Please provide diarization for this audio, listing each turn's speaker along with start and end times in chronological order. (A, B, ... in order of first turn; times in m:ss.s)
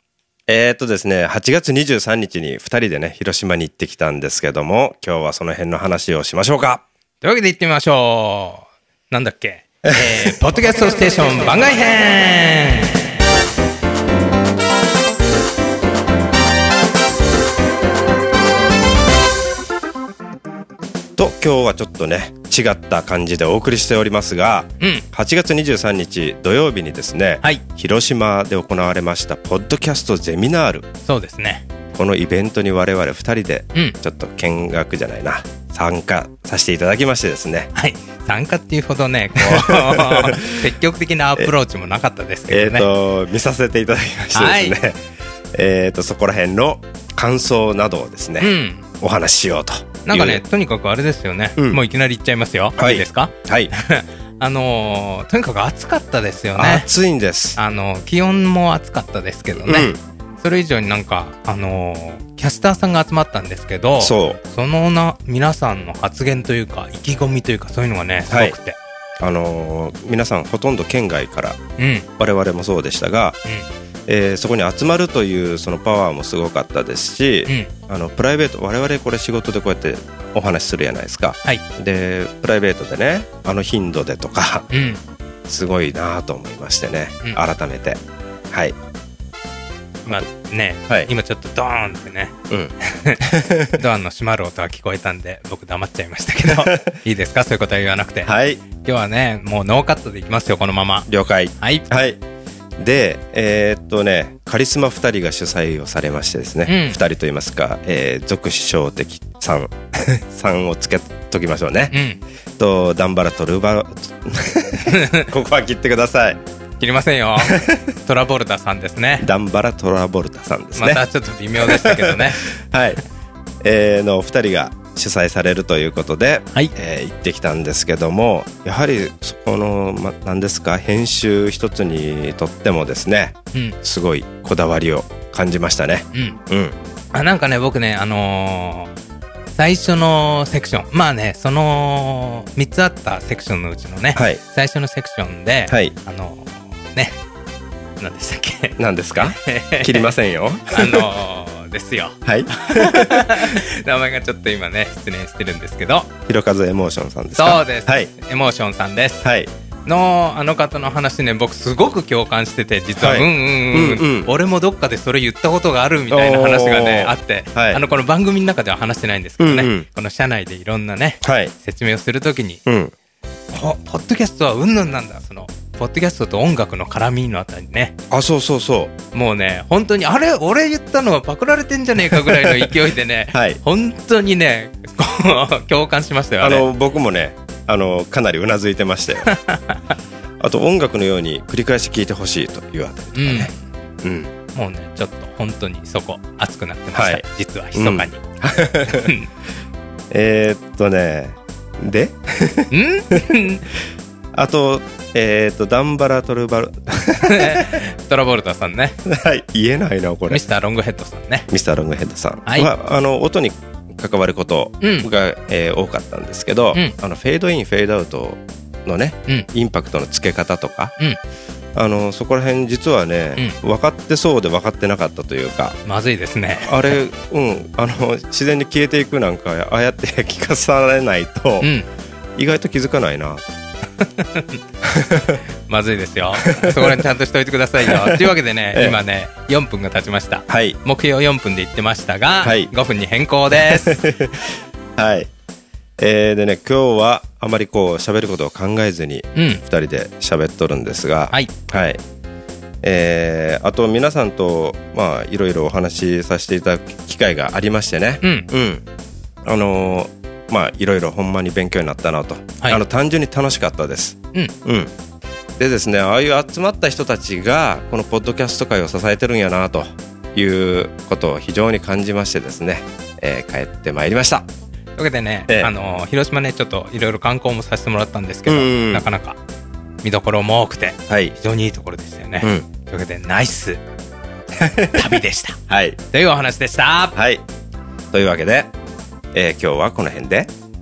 0:00.5-0:06.8 A
0:07.2-0:13.0 B
0:21.2-0:30.9 A
0:24.8-0:25.0 B
0:31.1-0:31.6 B
0:31.9-0:37.7 A
0:37.8-0:42.9 B
0:39.4-0:40.6 A
0:42.5-0:45.0 A
0:44.3-0:44.8 B
0:45.5-0:50.4 A
0:48.4-0:48.8 B
0:50.1-0:56.9 B
0:52.8-0:53.7 A
0:56.6-0:57.6 A
0:57.6-1:08.8 B
0:59.5-1:00.0 A
1:04.0-1:04.4 A
1:08.3-1:08.6 A
1:09.2-1:11.6 A
1:11.8-1:12.1 B
1:12.2-1:13.4 A
1:14.1-1:24.7 A
1:24.7-1:25.0 B
1:25.5-1:28.0 A
1:30.0-1:33.2 B
1:32.5-1:33.8 A
1:33.7-1:41.1 B
1:36.6-1:37.0 A
1:38.2-1:38.6 A
1:41.1-1:42.2 A
1:41.6-1:41.9 B
1:42.8-1:51.9 A
1:46.7-1:47.0 B
1:51.9-1:52.2 B
1:52.6-1:56.4 A
1:54.9-1:55.3 B
1:56.8-1:59.3 B
1:57.4-1:58.0 A
1:59.2-2:01.0 A
2:00.8-2:02.4 B
2:01.6-2:03.0 A
2:03.6-2:16.8 A
2:17.1-2:18.9 B
2:19.6-2:27.2 B
2:24.2-2:24.4 A
2:25.7-2:26.0 A
2:28.0-2:30.1 B
2:28.8-2:31.1 A
2:30.7-2:36.1 B
2:32.2-2:33.6 A
2:36.3-2:38.1 A
2:37.4-2:39.2 B
2:39.2-2:39.5 A
2:39.9-2:52.6 B
2:43.0-2:44.3 A
2:46.1-2:47.8 A
2:49.4-2:49.9 A
2:51.2-2:51.5 A
2:52.7-2:52.9 A
2:53.5-2:58.0 B
2:58.1-2:58.9 A
2:59.1-3:06.7 B
3:02.3-3:02.7 A
3:03.3-3:03.6 A
3:06.4-3:09.3 A
3:09.2-3:09.8 B
3:10.4-3:13.5 A
3:13.2-3:13.6 B
3:14.0-3:14.3 A
3:14.6-3:18.2 B
3:16.9-3:17.2 A
3:17.8-3:19.1 A
3:18.8-3:19.3 B
3:20.1-3:23.3 A
3:22.7-3:23.7 B
3:24.3-3:27.8 A
3:27.2-3:29.0 B
3:29.1-3:30.4 A
3:30.3-3:31.5 B
3:31.5-3:40.9 A
3:32.5-3:32.7 B
3:34.8-3:35.1 B
3:41.8-3:45.8 A
3:45.8-3:46.9 B
3:46.6-3:51.7 A
3:51.6-3:51.9 B
3:52.4-3:53.6 A
3:54.0-3:54.6 B
3:54.8-3:55.4 A
3:55.7-4:04.0 B
3:56.5-3:57.0 A
3:57.9-3:59.0 A
4:00.5-4:00.8 A
4:02.4-4:02.7 A
4:03.5-4:05.3 A
4:06.0-4:12.0 A
4:09.4-4:09.6 B
4:12.8-4:18.8 A
4:18.2-4:18.5 B
4:19.4-4:24.9 A
4:25.6-4:34.5 A
4:35.0-4:39.4 B
4:38.5-4:39.1 A
4:40.0-4:43.8 B
4:41.1-4:41.4 A
4:42.4-4:42.7 A
4:44.6-4:45.0 A
4:44.9-4:45.6 B
4:45.7-4:46.0 A
4:46.1-4:47.1 B
4:47.2-4:47.4 A
4:48.1-4:48.7 A
4:49.3-4:50.5 A